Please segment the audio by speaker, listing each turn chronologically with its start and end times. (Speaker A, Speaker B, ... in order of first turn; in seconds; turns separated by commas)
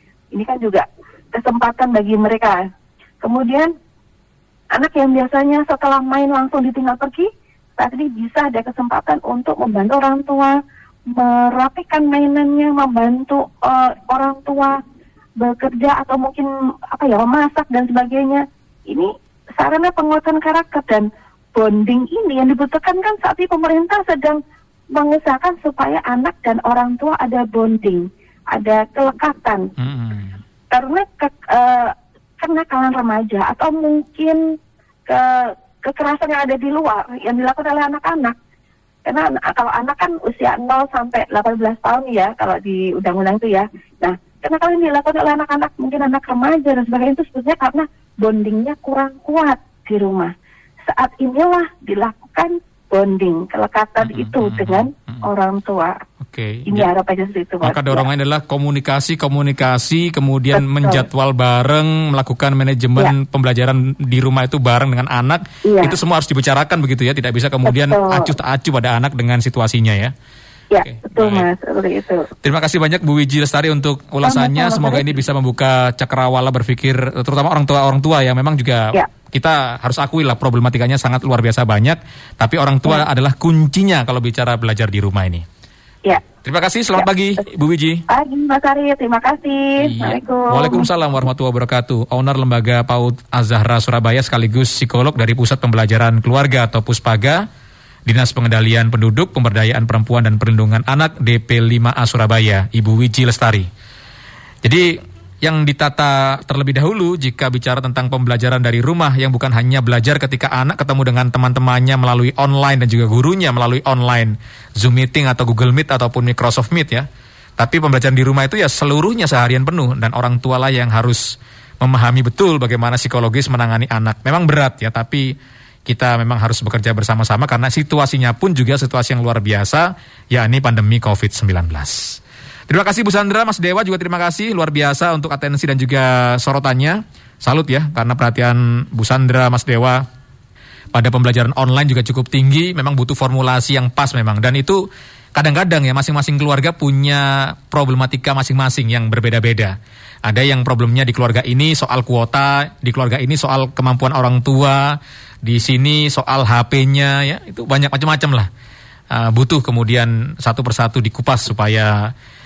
Speaker A: 0.3-2.6, Speaker A: 3.2-3.7, Speaker A: 4.7-10.6, Speaker A: 11.1-14.8, Speaker A: 15.4-24.4, Speaker A: 24.9-29.7, Speaker B: 29.8-30.4, Speaker A: 30.7-34.4, Speaker A: 35.1-38.4, Speaker A: 39.1-50.3, Speaker A: 50.9-56.0, Speaker B: 54.0-55.2, Speaker B: 56.2-56.9, Speaker A: 56.7-58.0, Speaker B: 57.6-70.1, Speaker A: 60.5-61.1, Speaker A: 65.7-66.0, Speaker A: 67.7-68.3, Speaker A: 70.7-72.3, Speaker B: 70.8-71.5, Speaker B: 72.4-85.5, Speaker A: 74.2-75.1, Speaker B: 86.4-88.0, Speaker A: 88.1-90.9, Speaker B: 89.8-97.4, Speaker B: 98.1-103.7, Speaker B: 104.6-117.1, Speaker B: 117.6-125.3, Speaker B: 125.9-140.0, Speaker B: 140.9-149.7, Speaker B: 150.3-158.5, Speaker B: 159.1-162.1